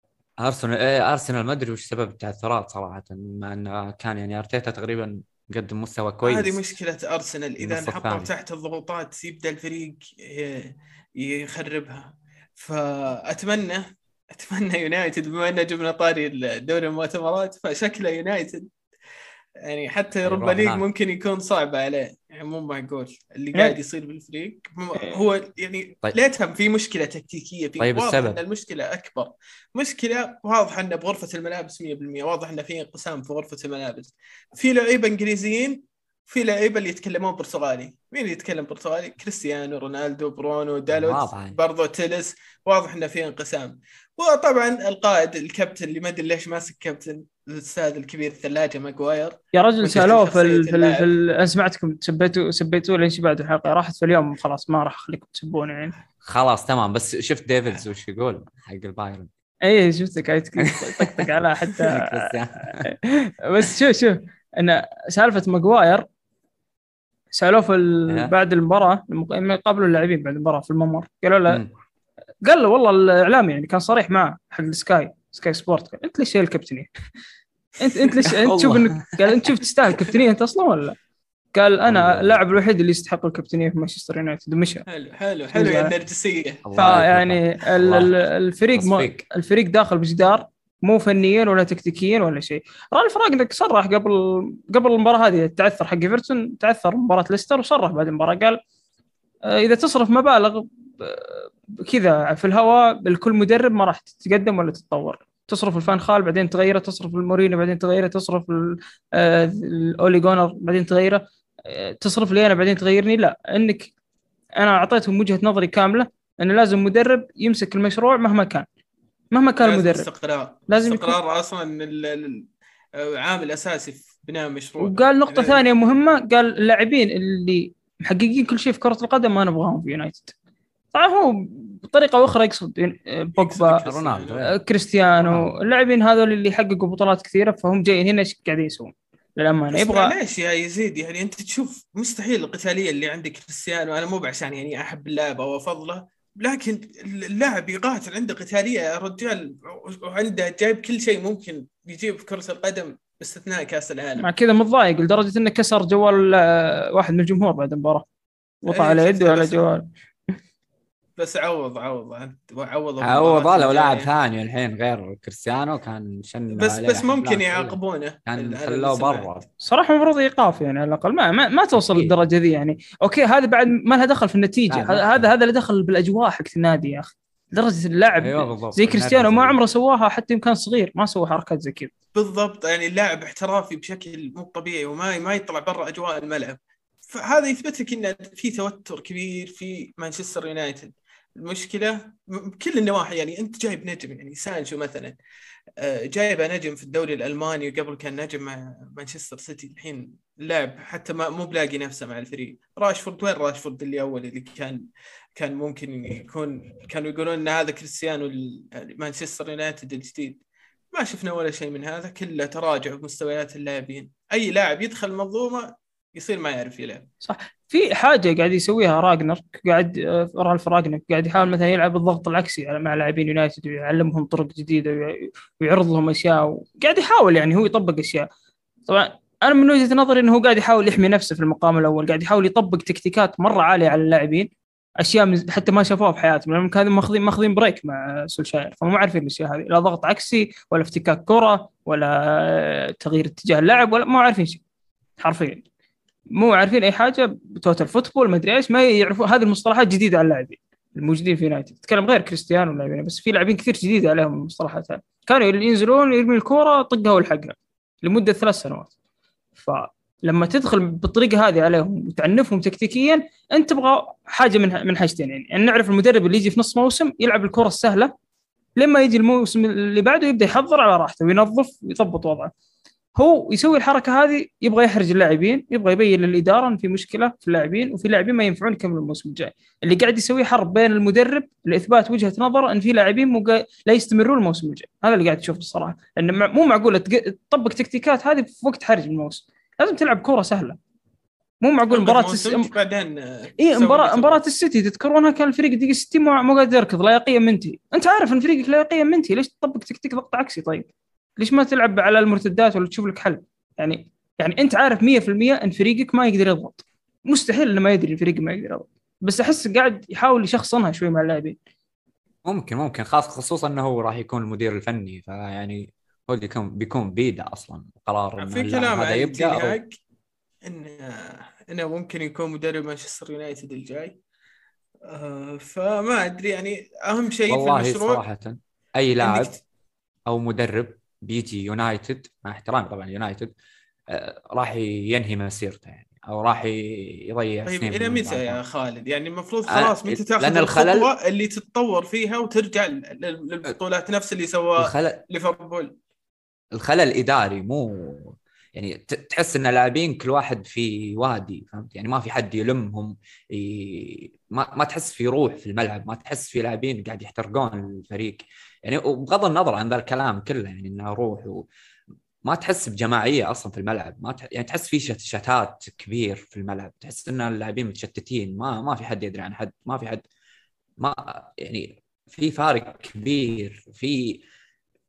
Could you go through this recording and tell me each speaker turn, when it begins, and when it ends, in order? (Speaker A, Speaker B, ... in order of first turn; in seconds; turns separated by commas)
Speaker A: 0.4-6.6, Speaker B: 6.2-18.7, Speaker A: 7.6-8.3, Speaker B: 19.6-51.0, Speaker A: 20.2-20.8, Speaker A: 27.8-28.4, Speaker A: 40.9-41.6, Speaker C: 49.5-56.0, Speaker A: 56.2-59.3, Speaker C: 59.6-66.1, Speaker A: 60.9-62.9, Speaker C: 67.3-71.6, Speaker C: 72.4-76.9, Speaker C: 77.8-81.0, Speaker A: 78.3-79.5, Speaker C: 81.5-84.9, Speaker A: 81.9-82.5, Speaker B: 84.9-87.0, Speaker C: 85.5-85.9, Speaker A: 86.7-88.2, Speaker C: 86.8-98.6, Speaker A: 88.7-89.2, Speaker C: 99.5-113.9, Speaker C: 114.6-118.7, Speaker C: 119.3-120.1, Speaker B: 119.6-125.6, Speaker C: 120.7-121.2, Speaker C: 124.8-130.3, Speaker C: 130.9-133.8, Speaker B: 133.4-134.4, Speaker A: 133.8-134.5, Speaker C: 134.4-140.1, Speaker A: 135.2-135.5, Speaker B: 139.7-154.3, Speaker C: 154.2-158.1, Speaker C: 158.7-159.9, Speaker B: 158.7-159.7, Speaker B: 161.2-164.1, Speaker A: 163.0-169.5, Speaker B: 166.5-169.3, Speaker C: 169.6-181.9, Speaker A: 171.8-172.1, Speaker A: 174.7-175.3, Speaker A: 178.2-179.6, Speaker B: 182.2-195.2, Speaker B: 195.8-204.8, Speaker B: 205.4-210.4, Speaker B: 210.9-217.1, Speaker C: 217.2-228.3, Speaker C: 228.9-244.6, Speaker C: 245.2-245.7, Speaker C: 246.3-258.9, Speaker C: 259.6-268.1, Speaker C: 268.8-272.5, Speaker C: 273.2-290.8, Speaker C: 291.6-292.7, Speaker B: 291.9-294.4, Speaker C: 293.6-311.6, Speaker A: 312.4-319.8, Speaker B: 318.4-320.0, Speaker B: 320.6-324.1, Speaker B: 325.1-328.2, Speaker A: 327.5-329.5, Speaker B: 329.2-329.6, Speaker A: 330.3-333.5, Speaker A: 334.1-338.6, Speaker B: 337.7-345.9, Speaker A: 339.7-341.1, Speaker A: 344.8-345.2, Speaker A: 346.7-361.7, Speaker A: 362.4-370.2, Speaker A: 371.0-374.4